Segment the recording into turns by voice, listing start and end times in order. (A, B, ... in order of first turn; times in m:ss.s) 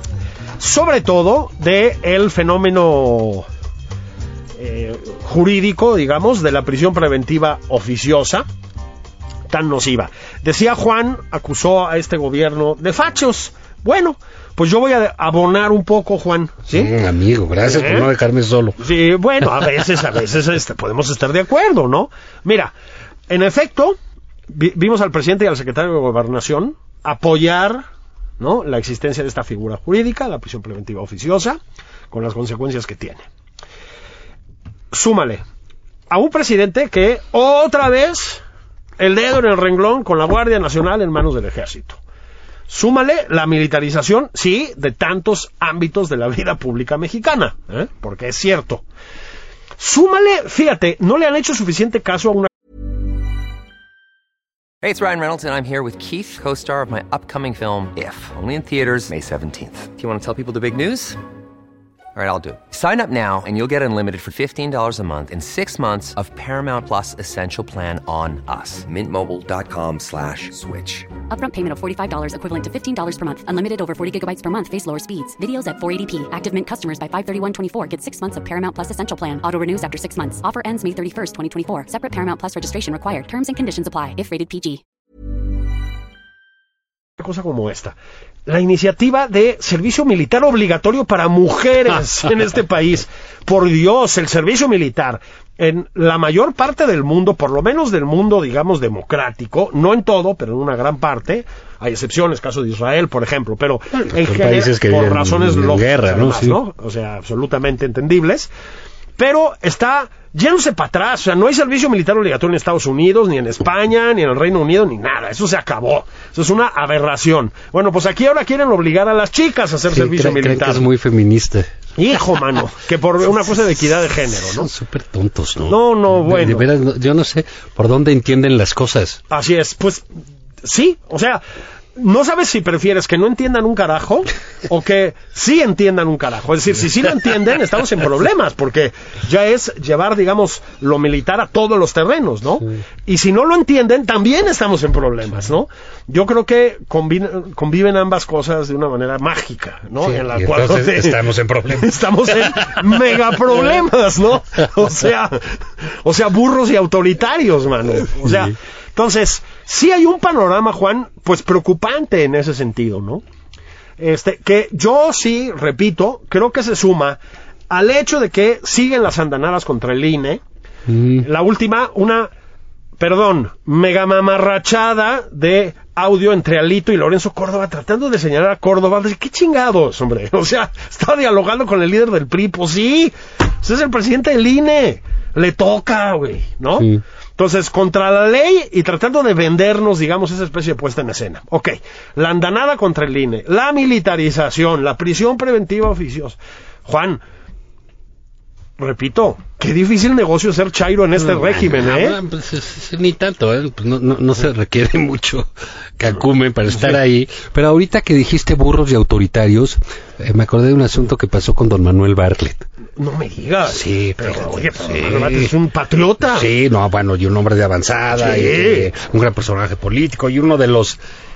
0:00.6-0:03.5 A
0:04.6-0:08.5 A
0:09.5-0:16.9 A
0:16.7-0:18.8 B
0:17.6-0:18.1 A
0:18.8-0:22.7 A
0:23.3-0:24.0 A
0:24.5-0:27.8 A
0:28.4-0:31.6 A
0:32.1-0:33.2 A
0:34.9-0:35.4 A
0:36.1-0:38.4 A
0:39.0-0:42.0 A
0:42.7-0:48.8 A
0:49.8-0:52.5 A
0:54.8-1:01.2 C
1:02.2-1:11.1 C
1:11.3-1:24.8 D
1:27.2-1:48.5 A
1:43.9-1:46.6 B
1:49.2-2:00.8 A
1:59.9-2:01.7 B
2:02.0-2:04.7 A
2:04.3-2:09.2 B
2:05.7-2:06.7 A
2:09.3-2:10.0 A
2:10.6-2:11.4 A
2:12.0-2:43.2 A
2:30.0-2:32.9 B
2:38.2-2:38.5 B
2:44.0-2:47.2 A
2:47.7-2:50.4 A
2:50.9-2:51.3 B
2:51.2-2:52.3 A
2:53.0-3:17.2 A
3:18.8-3:22.2 A
3:21.2-3:32.7 B
3:33.0-3:36.5 A
3:33.7-3:35.5 B
3:36.2-3:41.0 B
3:38.2-3:38.9 A